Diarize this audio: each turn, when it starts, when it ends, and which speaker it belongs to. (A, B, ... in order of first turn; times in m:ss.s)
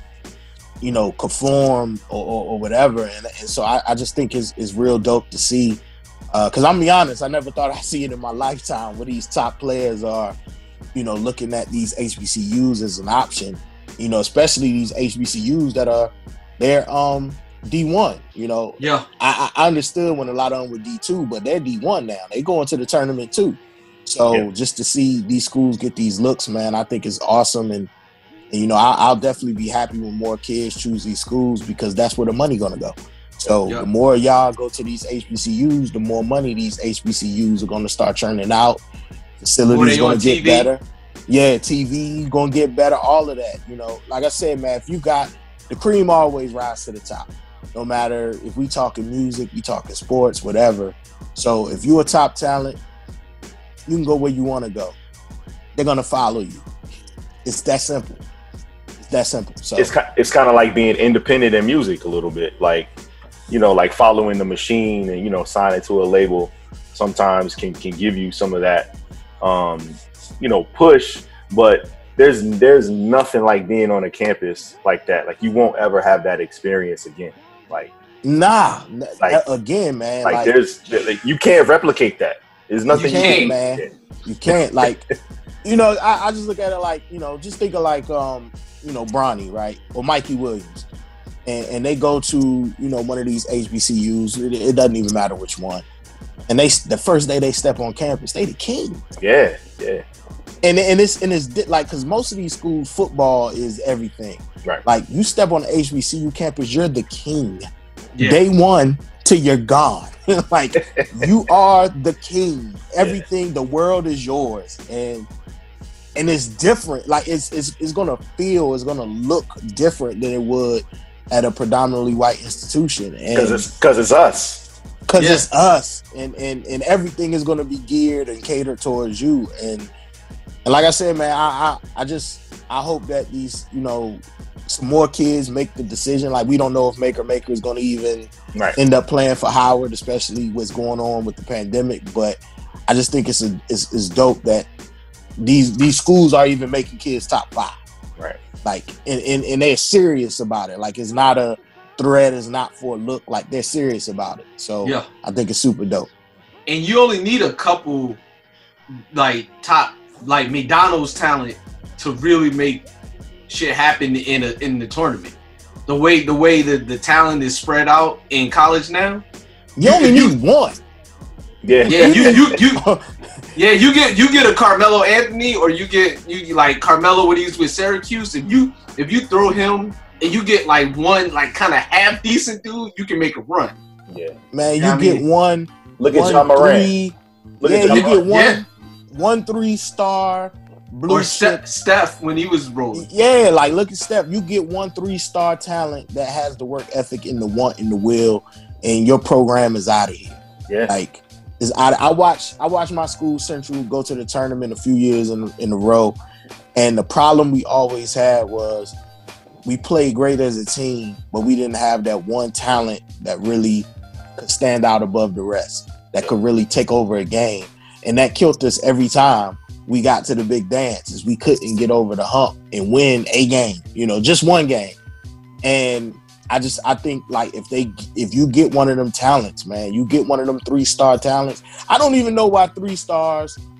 0:00.8-0:10.4 A
0:10.9-0:27.9 A
0:18.8-0:19.0 B
0:28.5-0:38.8 A
0:39.4-0:52.8 A
0:39.7-0:40.7 B
0:53.9-0:55.0 A
0:55.8-0:56.6 A
0:57.4-0:58.2 A
0:59.0-0:59.9 A
0:59.8-1:02.9 C
1:03.5-1:17.9 C
1:18.2-1:20.5 A
1:20.2-1:23.9 C
1:22.9-1:25.0 A
1:22.9-1:23.5 B
1:24.5-1:24.9 C
1:25.6-1:30.8 A
1:31.4-1:35.8 A
1:36.5-1:39.0 A
1:39.2-1:40.0 C
1:40.6-1:47.6 A
1:48.2-1:48.4 B
1:48.2-1:55.3 A
1:53.0-1:53.2 C
1:56.2-2:03.7 A
2:03.3-2:04.6 C
2:05.1-2:09.9 A
2:05.2-2:05.4 B
2:10.6-2:24.7 A
2:25.4-2:27.7 A
2:28.6-2:36.1 A
2:36.7-2:38.2 B
2:39.1-2:42.8 B
2:43.5-2:45.4 B
2:45.9-2:49.2 B
2:49.8-2:50.8 A
2:49.8-2:50.3 B
2:51.6-2:52.5 C
2:51.9-2:52.8 B
2:51.9-2:53.0 A
2:53.5-3:03.8 B
3:04.1-3:04.4 C
3:04.5-3:11.6 A
3:04.8-3:05.2 B
3:06.0-3:06.9 C
3:07.6-3:08.2 C
3:07.8-3:08.6 B
3:11.1-3:13.0 B
3:12.9-3:26.2 A
3:26.7-3:29.0 A
3:29.6-3:45.0 A
3:45.6-3:53.6 A